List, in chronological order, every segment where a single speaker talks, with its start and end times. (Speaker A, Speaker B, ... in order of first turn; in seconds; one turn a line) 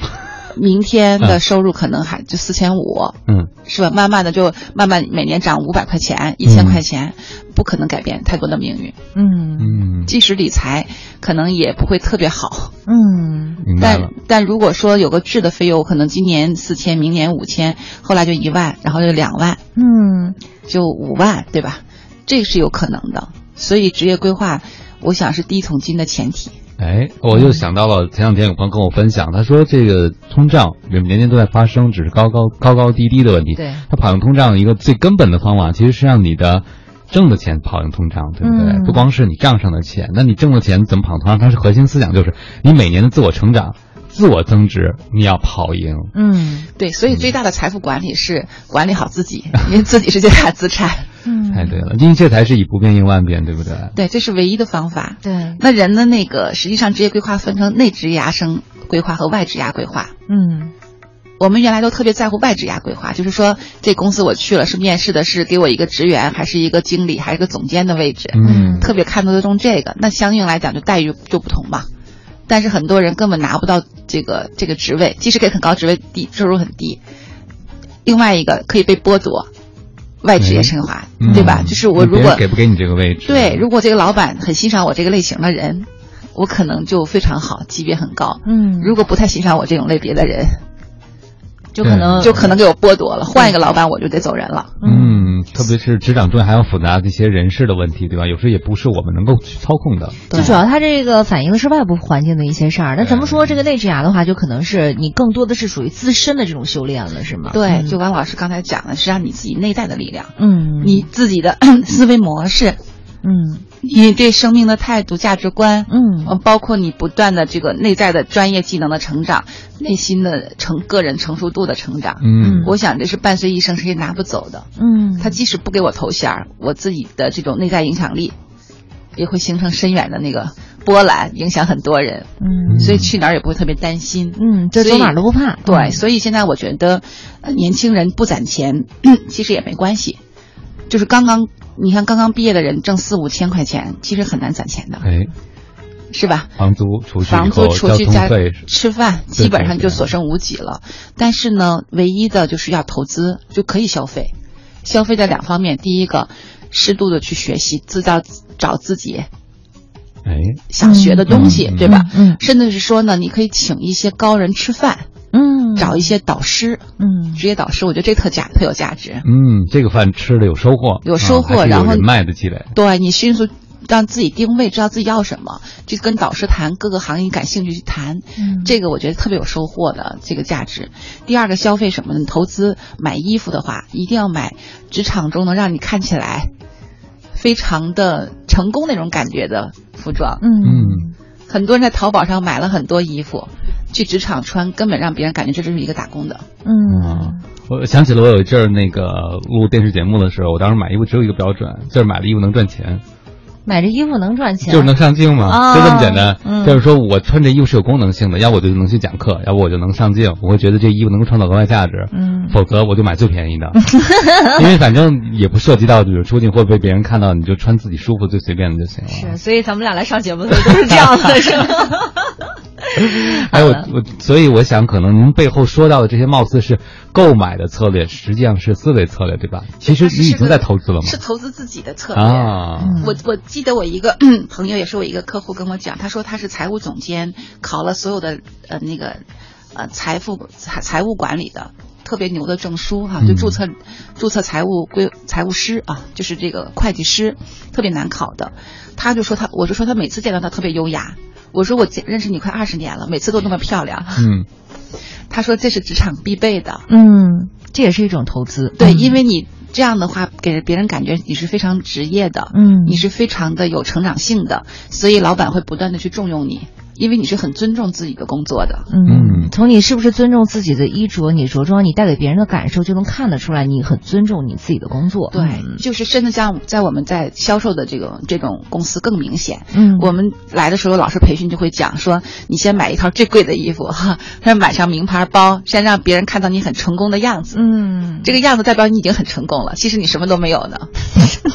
Speaker A: 0.5-8.9
Speaker B: 6.4-6.8
Speaker C: 9.1-9.8
Speaker B: 9.6-10.1
Speaker A: 10.1-12.7
Speaker C: 12.9-13.6
Speaker B: 13.6-14.1
Speaker A: 13.8-19.6
Speaker C: 19.8-20.4
Speaker A: 20.7-26.6
Speaker B: 26.8-46.1
Speaker C: 27.3-27.6
Speaker C: 33.5-33.8
Speaker C: 38.4-39.0
Speaker C: 46.1-46.7
Speaker A: 46.8-51.1
Speaker C: 51.2-51.8
Speaker B: 51.5-54.0
Speaker A: 53.9-60.1
Speaker C: 55.2-55.6
Speaker C: 60.3-60.7
Speaker A: 61.4-71.9
Speaker B: 68.3-68.9
Speaker C: 68.4-68.9
Speaker A: 72.5-77.0
Speaker A: 78.0-79.5
Speaker A: 80.2-82.4
Speaker B: 80.4-83.7
Speaker C: 81.3-81.7
Speaker A: 83.2-90.6
Speaker C: 88.4-89.0
Speaker C: 91.7-92.6
Speaker B: 91.8-92.5
Speaker A: 92.2-94.8
Speaker C: 94.8-95.3
Speaker B: 94.8-100.6
Speaker A: 100.3-100.6
Speaker C: 100.3-108.0
Speaker B: 103.0-103.6
Speaker A: 107.5-112.8
Speaker C: 110.4-111.1
Speaker C: 113.2-113.6
Speaker A: 113.8-124.7
Speaker C: 115.9-116.3
Speaker B: 122.2-122.7
Speaker C: 122.4-122.7
Speaker C: 124.8-125.4
Speaker A: 125.2-128.3
Speaker A: 129.2-140.2
Speaker C: 132.4-133.1
Speaker B: 132.7-133.1
Speaker C: 134.3-136.0
Speaker A: 140.9-145.1
Speaker B: 145.0-145.3
Speaker A: 146.1-146.5
Speaker B: 146.6-148.7
Speaker A: 147.2-154.3
Speaker B: 149.3-150.1
Speaker A: 154.8-159.3
Speaker B: 160.2-160.6
Speaker A: 160.7-165.1
Speaker C: 160.8-162.4
Speaker B: 161.3-161.9
Speaker C: 165.3-166.0
Speaker A: 165.8-166.8
Speaker C: 167.0-167.4
Speaker A: 167.3-169.2
Speaker B: 169.2-172.7
Speaker A: 171.0-172.1
Speaker A: 172.7-186.5
Speaker C: 178.4-178.7
Speaker A: 187.3-190.4
Speaker C: 190.4-191.1
Speaker B: 190.6-191.0
Speaker A: 191.5-196.4
Speaker C: 196.6-197.4
Speaker B: 196.9-203.0
Speaker C: 203.7-206.8
Speaker B: 204.7-219.3
Speaker C: 212.1-212.6
Speaker C: 213.8-214.6
Speaker C: 219.1-223.9
Speaker B: 220.5-221.7
Speaker B: 223.0-231.2
Speaker A: 229.8-239.2
Speaker B: 232.1-233.1
Speaker C: 232.8-233.2
Speaker A: 239.7-254.3
Speaker B: 243.2-243.6
Speaker B: 254.2-254.5
Speaker A: 255.3-256.9
Speaker C: 256.9-259.2
Speaker A: 258.8-268.9
Speaker C: 262.5-263.1
Speaker C: 268.9-275.8
Speaker B: 269.1-269.5
Speaker A: 275.3-287.6
Speaker C: 279.7-280.1
Speaker C: 287.5-288.3
Speaker A: 288.2-291.3